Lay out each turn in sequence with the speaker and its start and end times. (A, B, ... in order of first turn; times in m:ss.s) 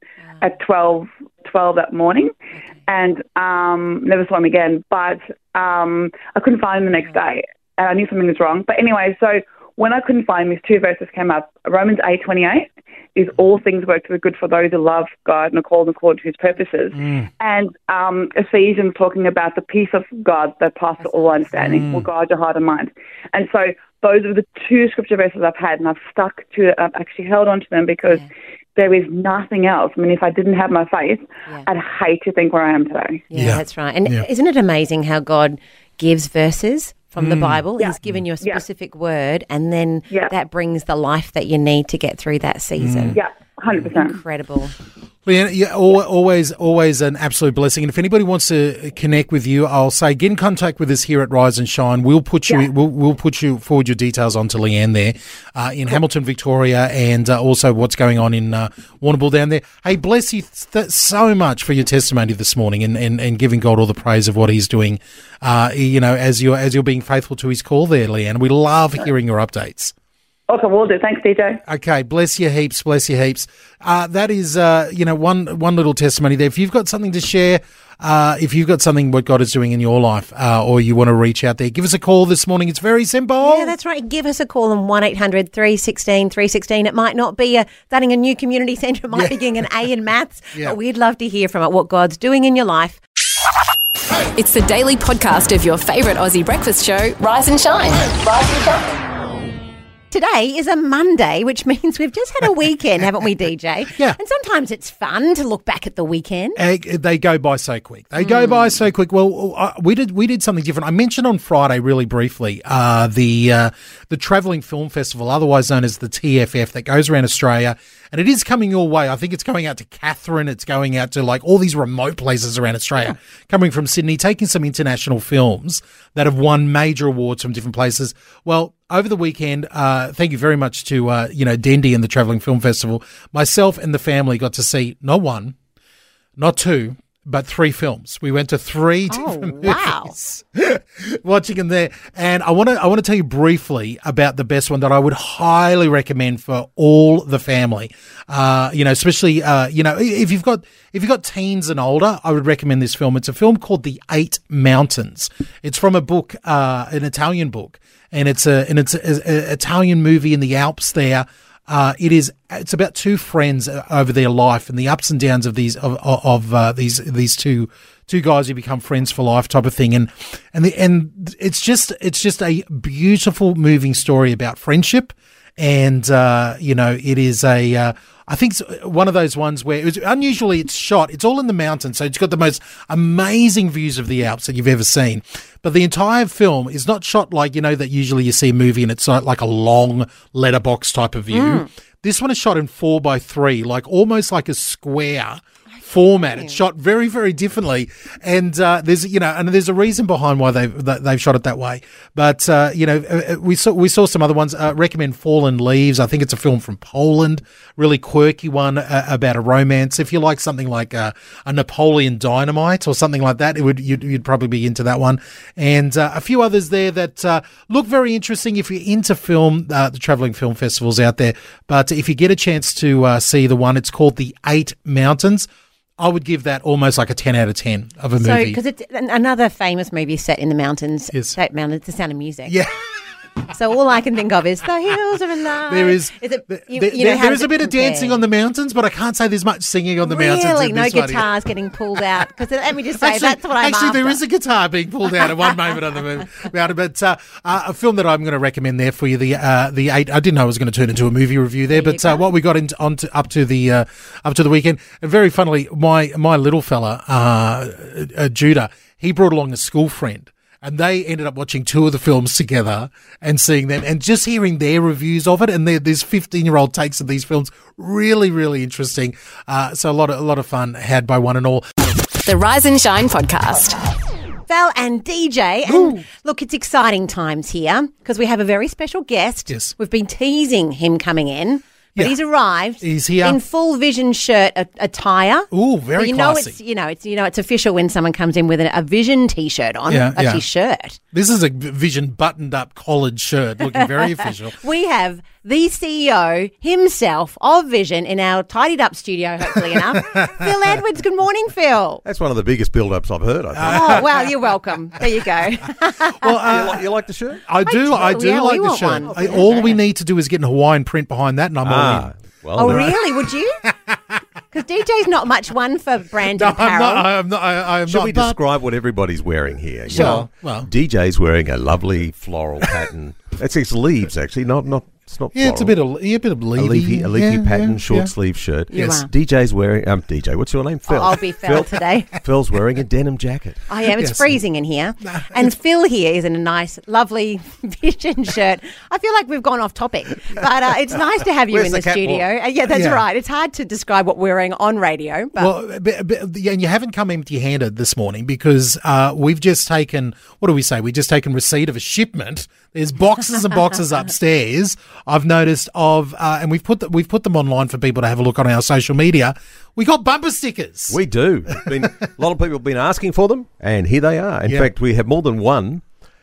0:00.4-0:02.3 A
0:02.5-0:02.8 B
0:02.9-0:28.2 A
0:06.8-0:07.2 B
0:16.9-0:17.3 C
0:21.0-0:21.8 B
0:21.6-0:22.1 C
0:28.8-0:33.2 A
0:33.3-0:43.2 B
0:33.3-0:34.3 C
0:37.2-0:38.2 C
0:37.8-0:38.6 A
0:42.8-0:43.2 C
0:43.1-0:44.2 A
0:43.7-0:44.7 B
0:45.2-1:09.9 C
1:10.5-1:11.6 A
1:11.6-1:23.7 C
1:23.4-1:33.0 B
1:29.1-1:29.7 C
1:34.4-1:39.0 D
1:40.1-1:46.6 B
1:43.9-1:44.2 C
1:46.6-2:15.6 C
1:48.2-1:48.6 B
2:16.4-3:48.6 C
2:19.1-2:20.1 B
3:11.3-3:11.7 B
3:15.7-3:16.6 B
3:48.2-3:52.5 B
3:51.1-3:51.4 C
3:52.5-3:52.7 C
3:53.5-3:58.2 B
3:55.7-4:01.3 C
4:00.1-4:04.2 B
4:03.0-4:31.8 C
4:11.7-4:12.2 B
4:32.2-4:33.7 D
4:34.5-4:51.0 B
4:35.6-4:36.0 C
4:39.5-4:39.7 C
4:42.8-4:43.4 C
4:45.5-4:46.6 C
4:49.9-4:50.4 C
4:51.1-4:54.6 C
4:53.6-5:02.0 B
4:59.7-5:00.5 C
5:02.0-5:04.1 E
5:03.5-5:04.3 C
5:03.7-5:06.5 B
5:06.1-5:06.8 C
5:06.5-5:07.4 E
5:07.4-5:12.1 C
5:07.6-5:09.8 B
5:11.6-5:12.9 E
5:12.6-5:13.7 B
5:12.6-5:14.0 C
5:14.5-5:17.0 B
5:16.2-5:18.4 C
5:17.9-5:25.7 E
5:19.9-5:20.7 C
5:19.9-5:20.2 B
5:25.3-5:28.1 C
5:26.6-5:33.6 E
5:28.7-5:29.1 B
5:28.7-5:29.0 C
5:30.9-5:32.1 B
5:33.7-5:45.5 B
5:33.9-5:34.4 C
5:35.0-5:35.5 C
5:41.5-5:43.0 C
5:45.4-6:01.0 C
6:00.9-6:05.8 E